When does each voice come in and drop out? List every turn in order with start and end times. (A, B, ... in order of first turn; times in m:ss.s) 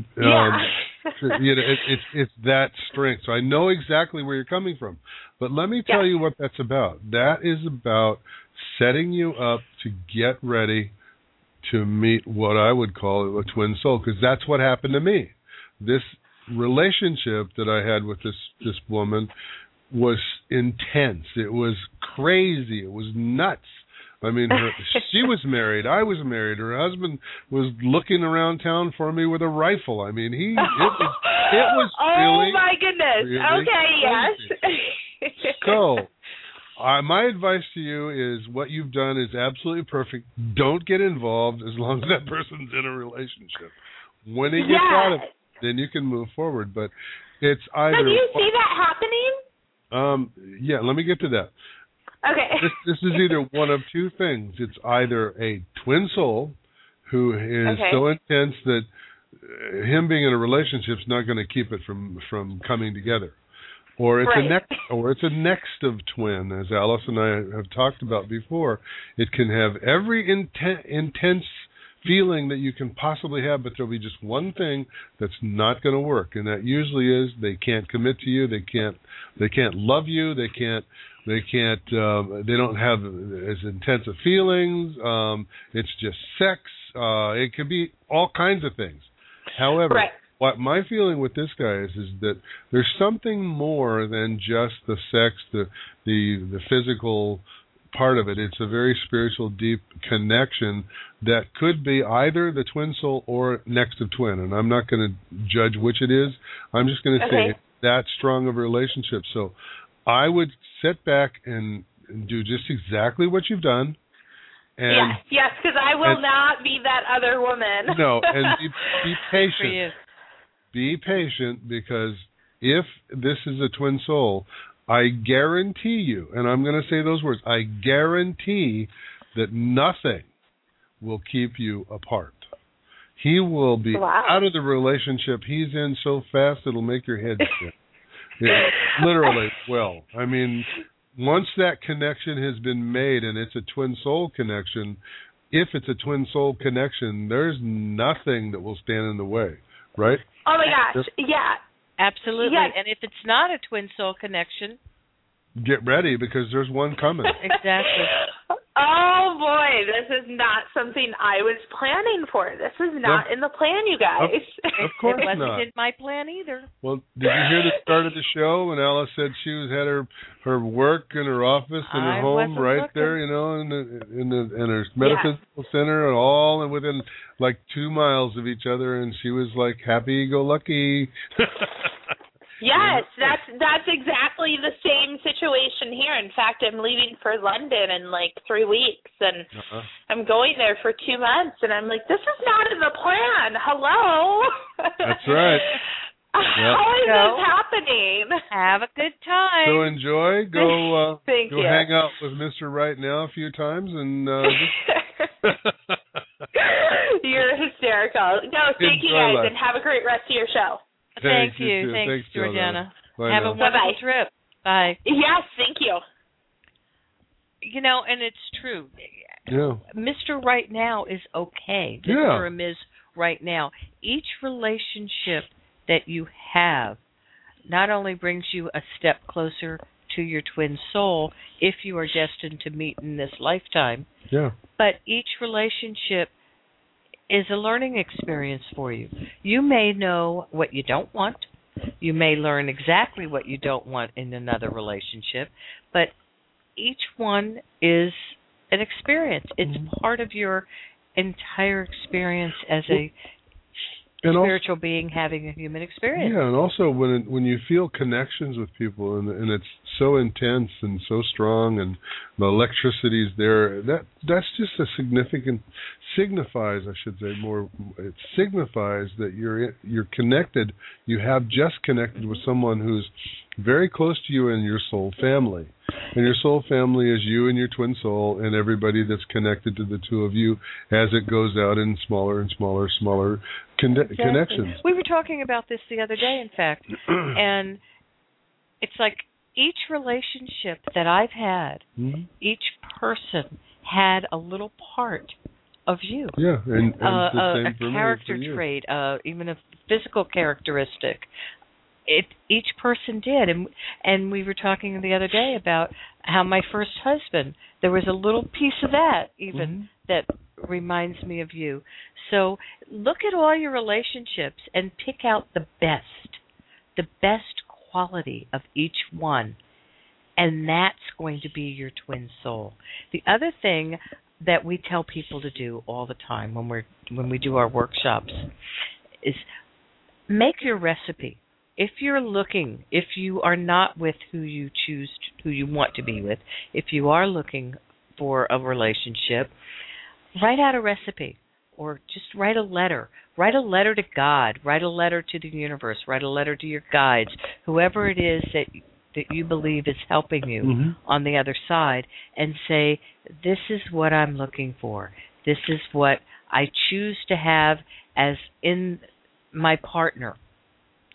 0:00.2-0:10.9 A
0:00.2-0:01.4 B
0:11.6-0:19.3 A
0:19.9-0:32.6 A
0:24.5-0:25.0 B
0:30.6-0:35.9 B
0:33.2-0:34.5 A
0:35.6-0:36.1 A
0:36.8-0:48.4 A
0:44.6-0:45.3 B
0:47.9-0:49.4 B
0:49.9-0:51.5 A
0:52.2-0:53.4 B
0:52.6-1:03.4 A
0:57.6-0:58.0 B
1:04.0-1:49.6 A
1:04.2-1:04.8 B
1:29.9-1:30.2 B
1:47.2-1:47.6 B
1:50.1-1:54.0 A
1:54.8-1:55.2 A
1:54.9-1:59.2 B
1:57.9-1:59.8 A
1:59.4-2:00.0 C
2:00.7-2:10.3 A
2:11.0-2:12.5 A
2:13.2-2:17.7 A
2:13.9-2:14.5 B
2:18.4-2:25.0 A
2:18.5-2:19.5 B
2:25.5-2:31.1 A
2:30.4-2:31.6 B
2:32.0-2:34.8 C
2:32.3-2:32.8 B
2:35.6-2:37.4 A
2:37.2-2:45.2 B
2:37.4-2:38.1 C
2:44.2-2:45.6 A
2:44.8-2:46.7 C
2:46.8-3:01.9 A
2:47.2-2:48.0 B
2:51.8-2:53.2 C
2:55.0-2:55.4 B
3:02.6-3:09.5 B
3:02.7-3:03.4 A
3:09.5-3:09.9 A
3:10.1-3:15.8 B
3:15.0-3:15.6 A
3:16.3-3:18.4 B
3:17.0-3:17.4 C
3:18.5-3:19.9 C
3:19.6-3:24.8 A
3:20.6-3:22.0 B
3:24.4-3:25.3 B
3:25.4-3:26.2 A
3:26.6-3:30.8 B
3:28.8-3:29.5 A
3:31.2-3:35.0 C
3:31.2-3:33.6 A
3:33.6-3:34.0 B
3:35.0-3:36.0 B
3:37.6-3:39.2 C
3:39.5-3:39.8 A
3:39.9-3:47.0 C
3:42.0-3:42.5 A
3:47.7-3:54.1 C
3:54.3-3:54.6 A
3:54.8-3:56.3 C
3:57.3-4:01.5 C
4:02.0-4:06.1 C
4:06.8-4:13.1 C
4:14.2-4:14.6 A
4:14.3-4:16.4 C
4:16.1-4:44.8 A
4:44.1-4:47.8 C
4:48.8-4:51.8 C
4:52.0-4:52.3 A
4:52.4-4:56.4 C
4:56.4-4:58.6 A
4:57.0-5:01.3 C
5:02.1-5:16.4 C
5:09.5-5:09.9 A
5:17.0-5:19.6 C
5:20.4-5:28.5 C
5:30.3-5:39.5 C
5:40.4-6:00.4 C
5:50.6-5:51.0 A